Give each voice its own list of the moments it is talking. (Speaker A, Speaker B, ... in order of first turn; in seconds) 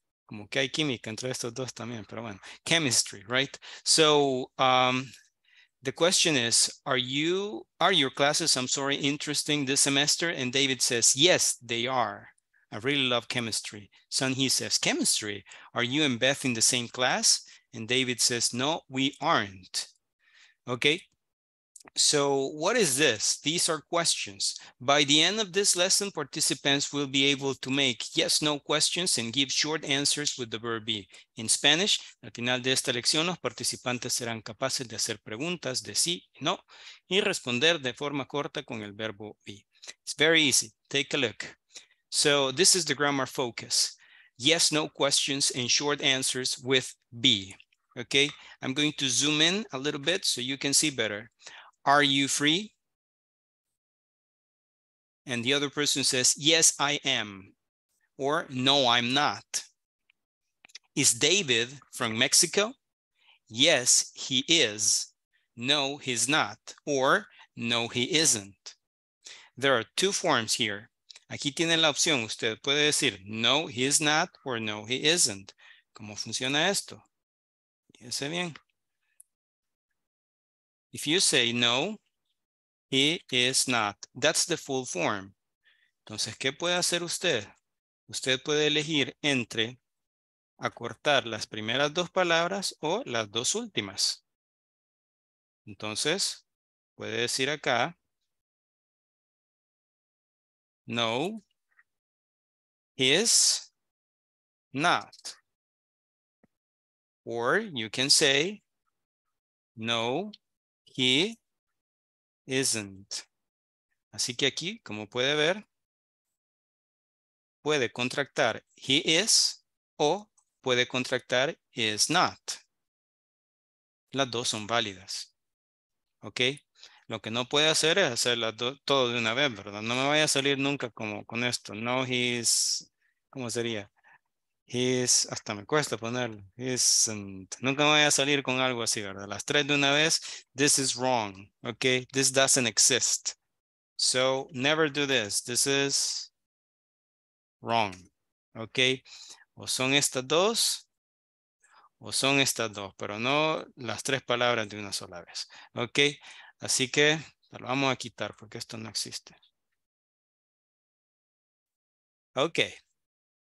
Speaker A: 0.3-5.1, 5.8-19.9, 20.7-21.1, 21.9-41.6, 42.1-51.3, 51.8-52.7, 55.2-57.5, 58.2-59.6, 60.9-62.7, 63.5-68.7, 69.6-77.0, 78.0-78.6, 80.9-82.0, 82.9-85.3, 86.0-87.5, 88.1-89.8, 90.6-94.2, 95.7-96.4, 97.0-98.0, 100.9-101.4, 103.0-103.7, 104.7-105.4, 107.2-108.6, 109.8-110.3, 110.9-111.4, 112.5-113.2, 114.1-115.6, 117.6-122.6, 124.1-125.3, 126.2-133.9, 134.7-143.4, 144.0-146.3, 147.6-149.0, 149.6-150.8, 152.0-159.4, 162.3-162.8